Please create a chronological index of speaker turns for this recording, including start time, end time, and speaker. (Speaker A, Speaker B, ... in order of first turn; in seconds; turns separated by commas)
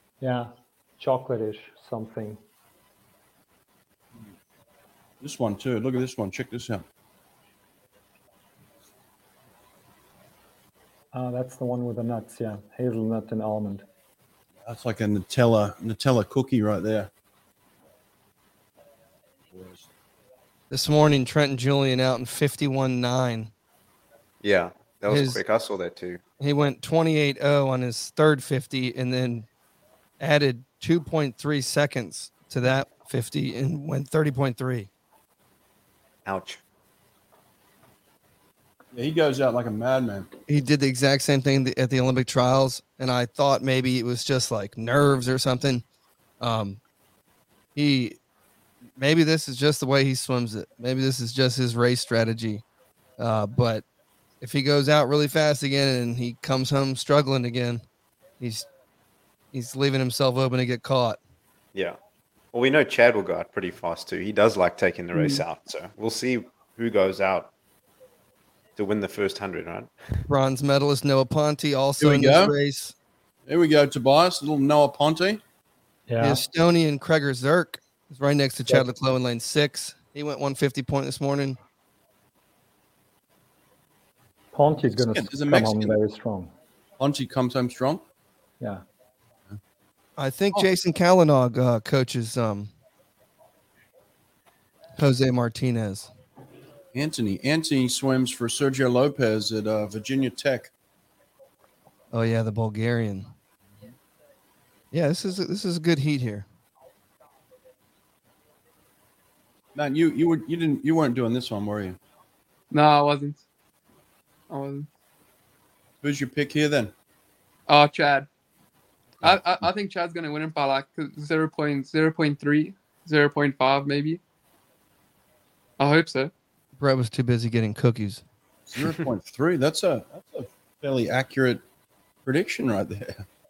Speaker A: 0.2-2.4, Speaker B: 5.2-6.8, Speaker A: 11.1-13.8, Speaker B: 14.6-17.1, Speaker B: 19.5-19.8, Speaker C: 20.7-23.5, Speaker D: 24.4-26.2, Speaker C: 25.1-25.4, Speaker C: 26.4-29.4, Speaker C: 30.2-34.9, Speaker D: 36.2-36.6, Speaker B: 38.9-40.3, Speaker C: 40.5-45.8, Speaker C: 46.4-46.8, Speaker C: 47.8-48.2, Speaker C: 49.0-52.6, Speaker C: 53.2-53.8, Speaker C: 54.4-57.8, Speaker C: 58.4-58.7, Speaker C: 59.5-61.2, Speaker D: 62.5-67.5, Speaker E: 65.1-65.4, Speaker D: 68.8-70.2, Speaker C: 70.3-72.9, Speaker B: 72.0-72.5, Speaker B: 73.5-75.4, Speaker A: 76.1-76.4, Speaker C: 76.2-81.6, Speaker A: 84.5-86.5, Speaker B: 84.8-86.0, Speaker B: 87.0-88.0, Speaker C: 90.2-92.7, Speaker C: 95.0-96.1, Speaker B: 96.9-100.7, Speaker C: 102.1-103.3, Speaker C: 104.9-106.5, Speaker B: 109.7-112.0, Speaker E: 112.7-113.4, Speaker E: 114.5-114.9, Speaker B: 116.0-116.9, Speaker E: 117.7-118.3, Speaker B: 119.2-119.6, Speaker E: 119.2-124.2, Speaker E: 125.8-126.3, Speaker C: 126.8-128.2, Speaker B: 128.7-131.6, Speaker B: 132.2-133.2